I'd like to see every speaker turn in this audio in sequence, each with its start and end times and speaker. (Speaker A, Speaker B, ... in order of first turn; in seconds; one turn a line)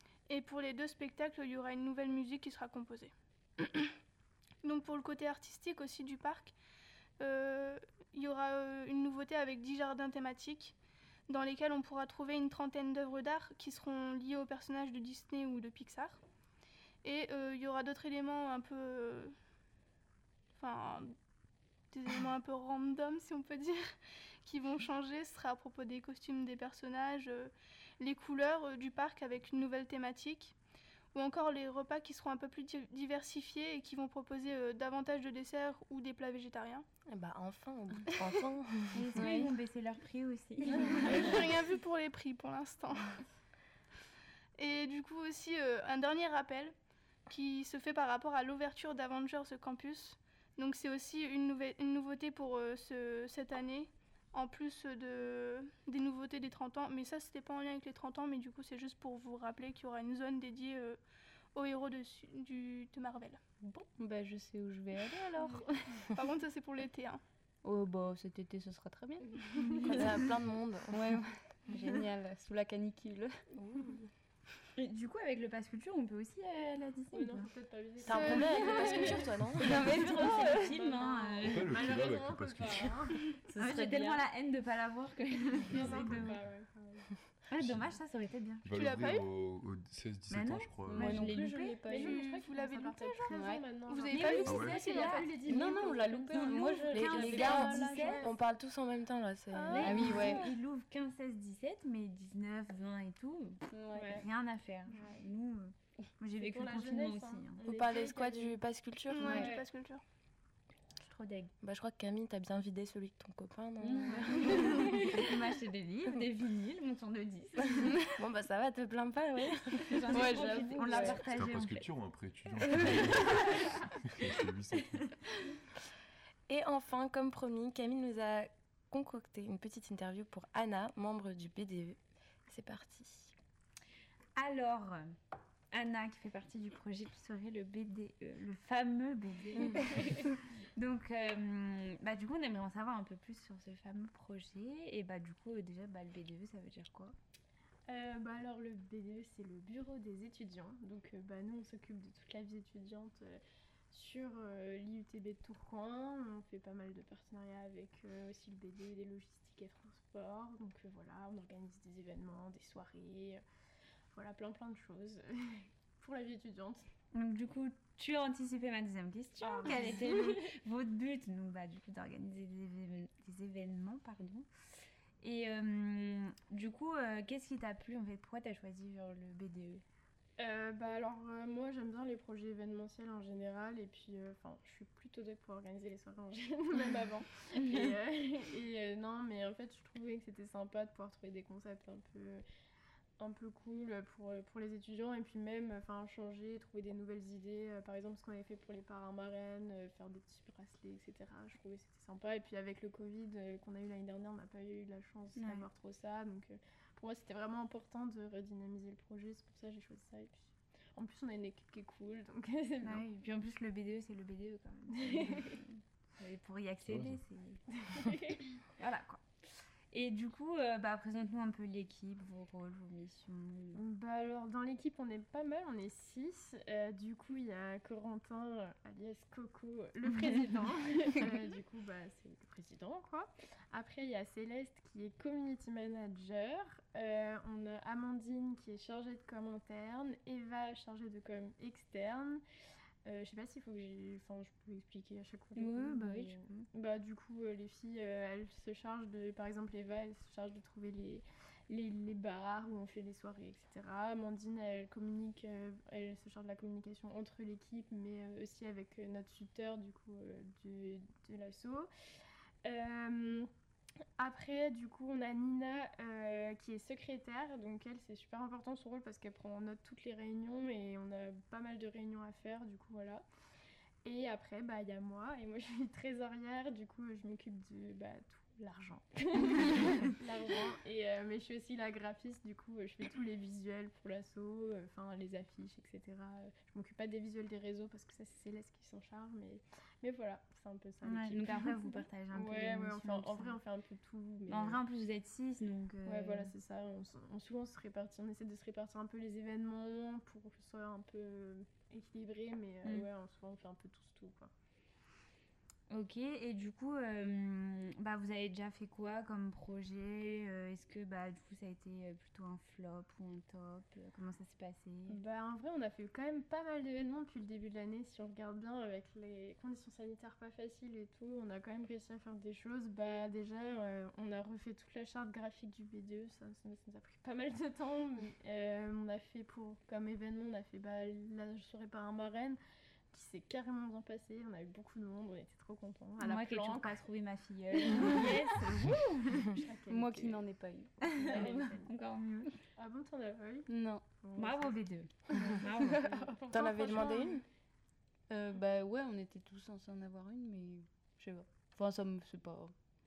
Speaker A: 0.3-3.9
Speaker A: 4.6-6.5
Speaker A: 7.2-10.8
Speaker A: 11.3-16.2
Speaker A: 17.0-19.3
Speaker A: 20.5-21.1
Speaker A: 21.9-30.5
Speaker A: 31.1-36.9
Speaker B: 37.1-39.3
Speaker C: 38.9-41.4
Speaker D: 39.1-39.5
Speaker A: 40.9-43.2
Speaker A: 44.6-46.7
Speaker A: 47.3-61.0
Speaker A: 61.5-63.4
Speaker D: 63.6-66.1
Speaker A: 66.1-67.2
Speaker D: 67.6-70.3
Speaker E: 69.5-70.0
Speaker B: 69.9-71.1
Speaker D: 70.9-73.3
Speaker B: 73.5-74.1
Speaker C: 74.8-77.5
Speaker E: 77.1-79.4
Speaker B: 78.0-79.8
Speaker A: 78.1-79.1
Speaker C: 79.5-81.9
Speaker D: 79.7-81.0
Speaker E: 80.0-83.4
Speaker F: 81.4-83.1
Speaker D: 83.4-84.2
Speaker C: 83.5-86.4
Speaker E: 85.7-87.1
Speaker F: 86.0-86.3
Speaker C: 87.5-88.7
Speaker F: 87.6-88.0
Speaker F: 88.6-91.3
Speaker A: 88.7-89.3
Speaker C: 90.3-91.8
Speaker D: 90.8-92.4
Speaker E: 91.8-98.3
Speaker A: 91.9-95.6
Speaker D: 93.3-98.3
Speaker C: 94.2-95.3
Speaker F: 94.4-94.9
Speaker C: 96.3-98.2
Speaker B: 96.9-100.0
Speaker A: 99.5-100.5
Speaker D: 99.7-100.5
Speaker C: 99.7-107.6
Speaker D: 103.7-104.2
Speaker E: 106.4-108.6
Speaker B: 107.7-109.5
Speaker A: 109.1-110.0
Speaker D: 109.2-109.5
Speaker E: 109.2-109.6
Speaker C: 111.0-111.5
Speaker B: 111.6-115.2
Speaker D: 113.8-114.6
Speaker C: 114.3-118.0
Speaker B: 118.1-120.1
Speaker C: 119.8-121.9
Speaker D: 120.1-121.2
Speaker F: 121.2-125.1
Speaker C: 122.7-123.4
Speaker B: 126.5-133.3
Speaker C: 134.3-135.1
Speaker C: 135.7-147.2
Speaker E: 147.9-153.4
Speaker E: 153.9-163.4
Speaker E: 164.1-166.9
Speaker C: 167.1-174.5
Speaker E: 169.5-170.4
Speaker D: 169.7-170.0
Speaker C: 175.2-179.8
Speaker E: 180.4-192.4
Speaker E: 193.2-213.1
Speaker C: 205.3-205.7
Speaker C: 212.8-217.6
Speaker E: 215.0-215.5
Speaker F: 216.9-217.2
Speaker E: 217.7-218.5
Speaker C: 218.8-219.2
Speaker C: 219.9-223.8
Speaker E: 223.7-242.4
Speaker E: 243.1-261.9
Speaker C: 245.6-246.6
Speaker E: 262.6-263.5
Speaker E: 264.2-273.2
Speaker E: 274.0-294.8
Speaker C: 291.0-293.6
Speaker C: 294.5-296.5
Speaker E: 296.0-304.5
Speaker C: 305.9-315.2
Speaker E: 315.1-332.6
Speaker E: 333.1-337.0
Speaker C: 336.2-339.6
Speaker E: 337.9-338.3
Speaker E: 339.5-340.4
Speaker D: 339.9-341.5
Speaker E: 341.0-341.9
Speaker C: 341.1-342.5
Speaker E: 342.8-343.7
Speaker D: 343.7-344.0
Speaker E: 344.2-344.7
Speaker C: 344.4-346.3
Speaker E: 345.9-347.4
Speaker B: 346.5-347.4
Speaker D: 348.3-352.7